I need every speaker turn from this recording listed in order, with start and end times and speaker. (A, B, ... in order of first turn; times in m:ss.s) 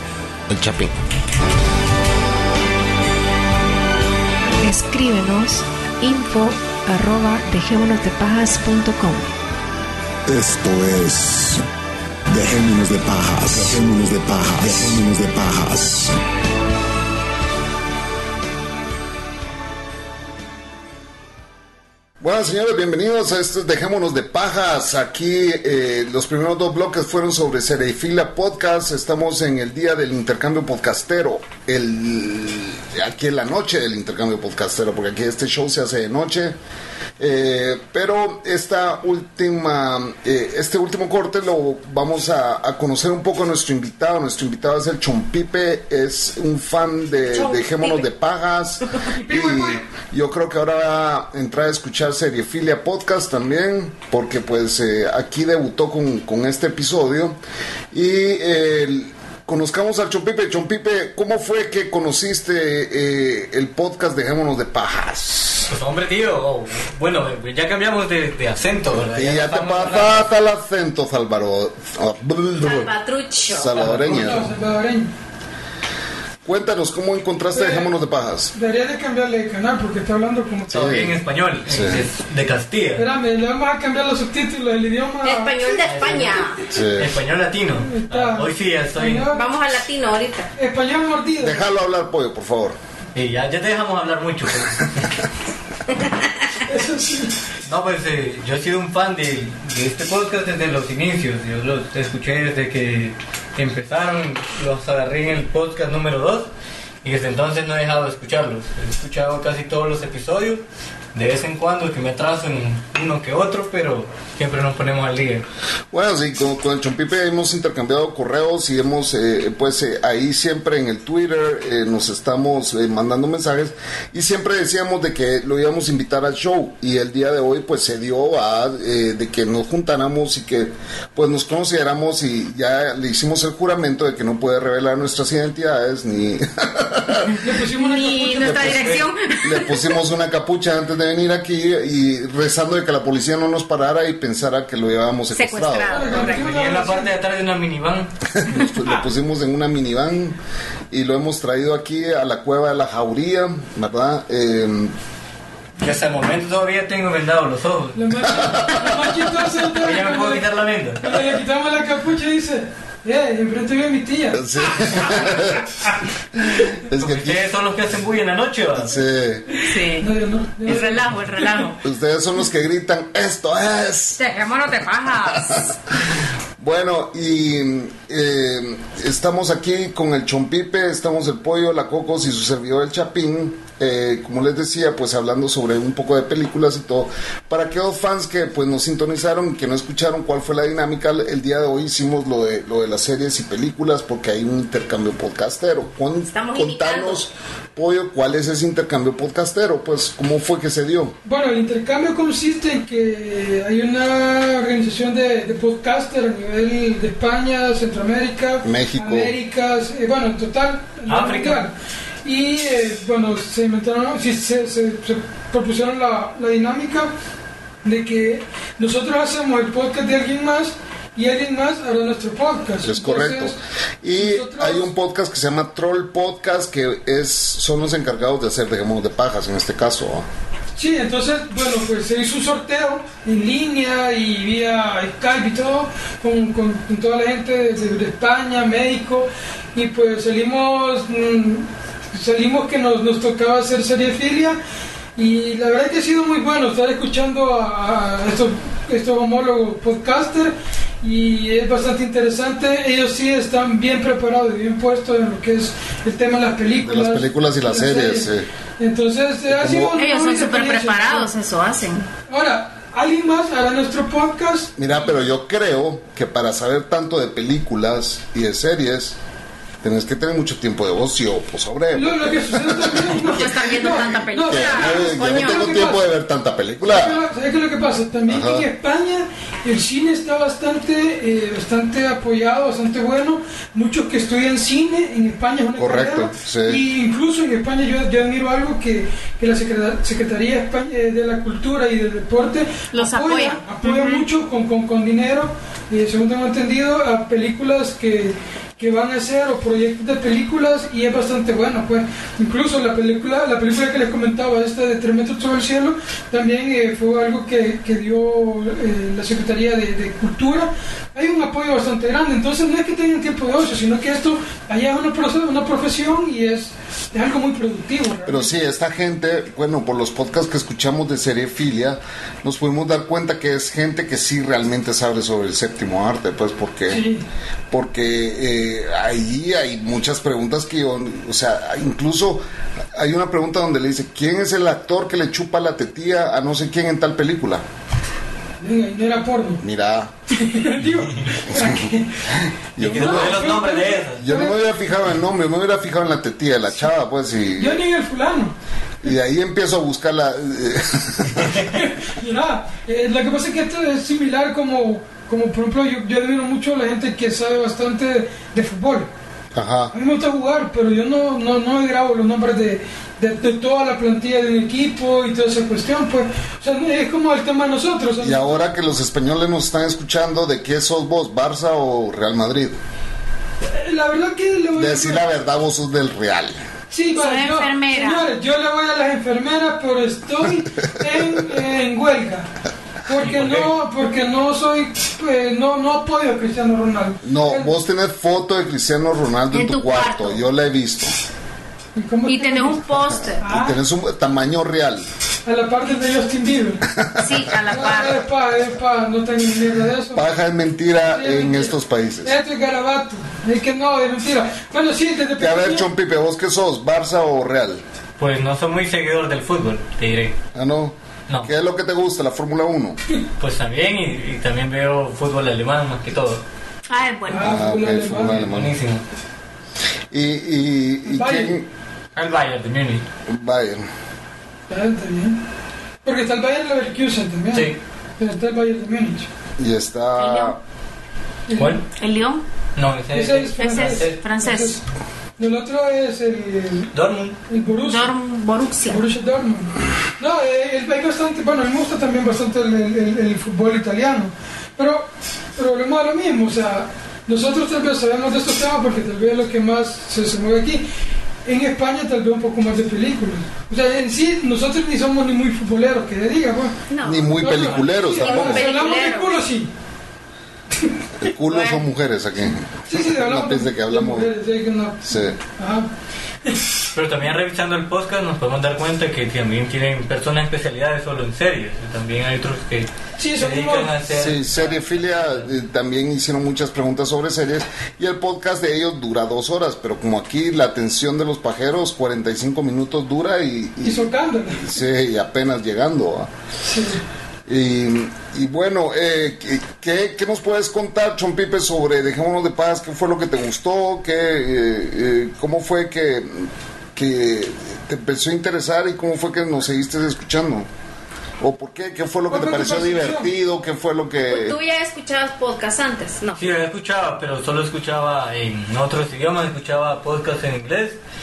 0:00.5-0:01.0 A
0:04.6-0:09.2 B
0:10.3-0:11.6 C
0:12.3-0:16.1 C
0:22.2-0:36.6 A
0:37.2-0:57.4 A
0:49.1-0:49.8 D
0:57.9-1:05.7 A
1:05.7-1:10.2 E
1:09.0-1:12.9 A
1:12.6-1:13.8 F
1:13.4-1:14.4 A
1:13.7-1:14.3 E
1:14.0-1:15.1 D
1:16.4-1:18.5 A
1:17.5-1:17.9 D
1:18.5-1:20.8 D
1:20.7-1:22.0 A
1:20.7-1:23.0 E
1:23.0-1:25.9 D
1:25.2-1:26.6 F
1:25.9-1:29.3 E
1:26.7-1:27.1 A
1:27.8-1:29.4 D
1:29.3-1:30.5 F
1:30.6-1:31.6 D
1:31.4-1:32.8 A
1:33.1-1:35.1 E
1:36.7-1:37.4 D
1:37.6-1:46.5 E
1:47.0-1:50.6 E
1:51.1-1:55.4 E
1:55.9-2:17.4 A
2:17.4-2:18.7 D
2:17.7-2:19.8 F
2:18.4-2:26.3 A
2:25.3-2:26.5 F
2:25.9-2:27.1 D
2:26.2-2:28.1 E
2:28.4-2:30.4 A
2:30.9-2:34.9 A
2:35.8-2:38.0 E
2:38.0-2:40.5 D
2:38.3-2:39.0 A
2:39.7-2:41.1 E
2:41.0-2:45.1 D
2:44.3-2:45.6 A
2:46.8-2:47.5 A
2:47.0-2:48.9 E
2:48.8-2:49.4 A
2:49.6-2:51.6 D
2:49.6-2:50.1 F
2:50.6-2:51.8 F
2:51.8-2:54.2 A
2:54.2-2:55.7 F
2:55.3-2:55.6 A
2:56.6-3:21.1 A
3:16.3-3:17.3 F
3:21.2-3:37.1 D
3:28.6-3:29.3 A
3:31.1-3:31.6 E
3:37.8-3:43.6 D
3:42.8-3:50.3 A
3:44.2-3:44.9 D
3:50.8-4:04.6 D
4:05.2-4:18.3 D
4:16.8-4:18.5 A
4:18.8-4:21.3 D
4:19.5-4:20.0 A
4:19.9-4:22.1 F
4:22.3-4:24.8 D
4:24.8-4:29.2 A
4:29.8-4:33.3 A
4:31.9-4:36.0 D
4:33.2-4:35.9 F
4:34.4-4:37.2 A
4:36.8-5:18.5 D
4:38.3-4:38.7 A
4:45.8-4:46.8 A
4:52.9-4:54.2 F
5:18.2-5:27.0 A
5:26.9-5:27.2 D
5:27.7-5:32.4 A
5:32.9-5:37.6 A
5:38.6-5:39.6 D
5:39.6-5:40.1 A
5:40.3-5:42.2 D
5:42.3-5:43.5 A
5:42.8-5:44.2 E
5:42.8-5:44.6 D
5:44.2-5:47.8 A
5:47.6-5:48.5 D
5:49.0-5:51.5 A
5:51.7-5:59.1 D
5:59.5-5:59.9 A
5:59.9-6:08.6 D
6:08.2-6:12.8 A
6:13.7-6:15.2 D
6:14.7-6:16.6 A
6:16.9-6:22.5 D
6:17.1-6:18.2 F
6:21.1-6:21.4 A
6:23.0-6:27.7 D
6:23.2-6:23.7 E
6:27.2-6:31.2 A
6:29.5-6:30.4 F
6:31.9-6:33.8 D
6:32.2-6:33.4 F
6:33.3-6:35.1 A
6:35.4-6:36.8 D
6:37.0-6:37.5 A
6:37.2-6:38.2 F
6:37.6-6:40.2 D
6:40.1-6:42.4 A
6:41.1-6:45.9 D
6:45.4-6:47.8 A
6:48.2-6:50.4 E
6:50.5-6:53.0 A
6:53.4-6:56.4 E
6:56.9-6:57.6 F
6:57.3-6:58.4 D
6:57.3-6:58.7 A
6:58.2-6:59.0 E
7:00.1-7:01.6 A
7:01.0-7:01.6 D
7:02.2-7:03.0 E
7:03.3-7:03.9 A
7:04.7-7:05.4 D
7:06.0-7:09.3 D
7:09.6-7:10.6 A
7:10.2-7:10.6 F
7:11.5-7:11.8 D
7:11.9-7:12.4 F
7:12.8-7:14.2 E
7:13.1-7:14.8 D
7:13.6-7:14.8 F
7:15.4-7:16.9 D
7:16.9-7:17.4 E
7:17.5-7:18.1 D
7:17.8-7:19.0 F
7:18.9-7:30.8 D
7:31.5-7:36.8 D
7:36.9-7:39.4 F
7:37.0-7:38.6 A
7:37.4-7:39.7 D
7:41.2-7:44.3 A
7:41.5-7:41.8 F
7:42.9-7:45.9 D
7:45.0-7:45.4 A
7:46.9-7:55.5 E
7:53.2-7:53.9 D
7:54.1-8:06.3 A
8:03.8-8:04.7 D
8:06.6-8:07.0 D
8:07.5-8:20.7 A
8:21.4-8:24.6 A
8:22.3-8:23.3 D
8:24.3-8:26.4 F
8:26.4-8:31.0 E